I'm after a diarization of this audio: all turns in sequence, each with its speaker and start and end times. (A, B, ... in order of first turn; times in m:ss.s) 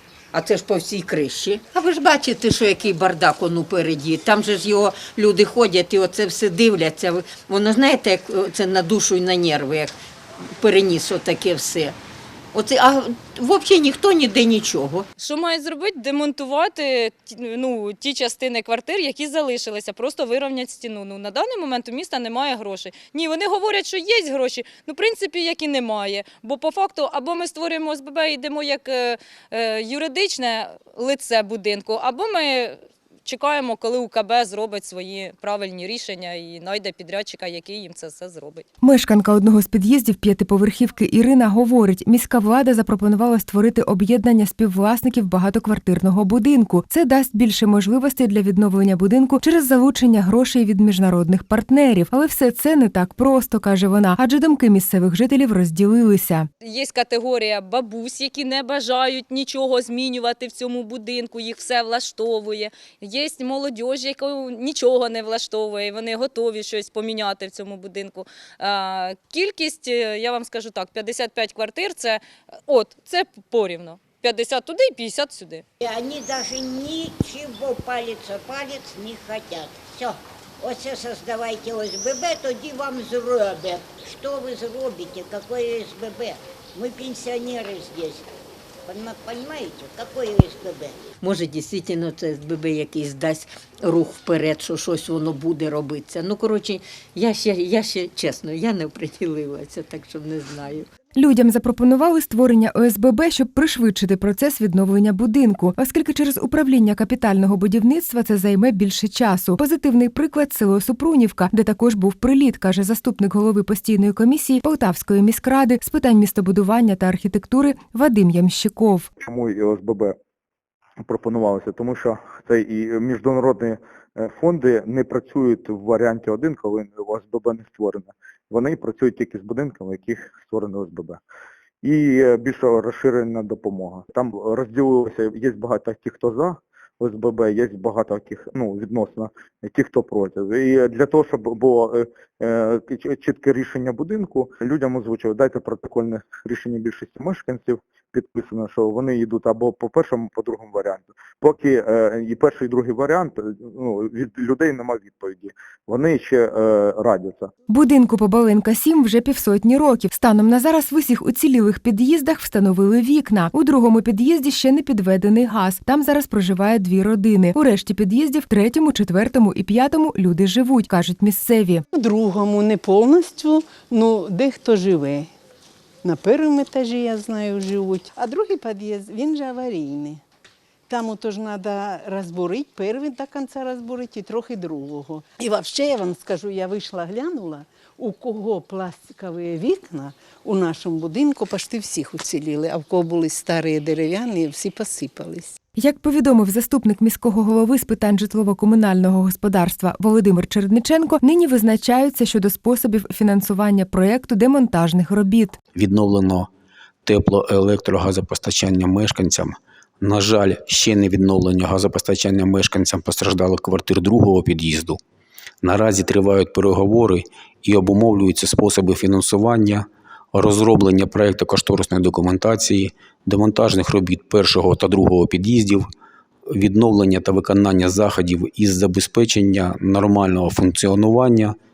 0:00.3-0:09.9 A
0:10.6-0:12.0 A
0:12.5-0:15.0 A
0:15.2-0:38.6 B
0:38.8-0:56.5 C
0:56.6-1:15.6 B
1:15.8-1:28.2 D
1:28.8-1:31.0 D
1:31.2-1:40.9 A
1:41.2-1:59.1 C
1:59.2-2:00.2 E
2:01.0-2:11.2 E
2:11.8-2:37.5 E
2:37.7-2:51.8 C
2:51.9-2:55.3 F
2:56.0-3:00.2 F
3:00.9-3:15.6 F
3:15.7-3:25.6 C
3:25.7-3:26.5 G
3:27.0-3:35.0 G
3:35.6-3:45.8 G
3:46.5-3:51.5 G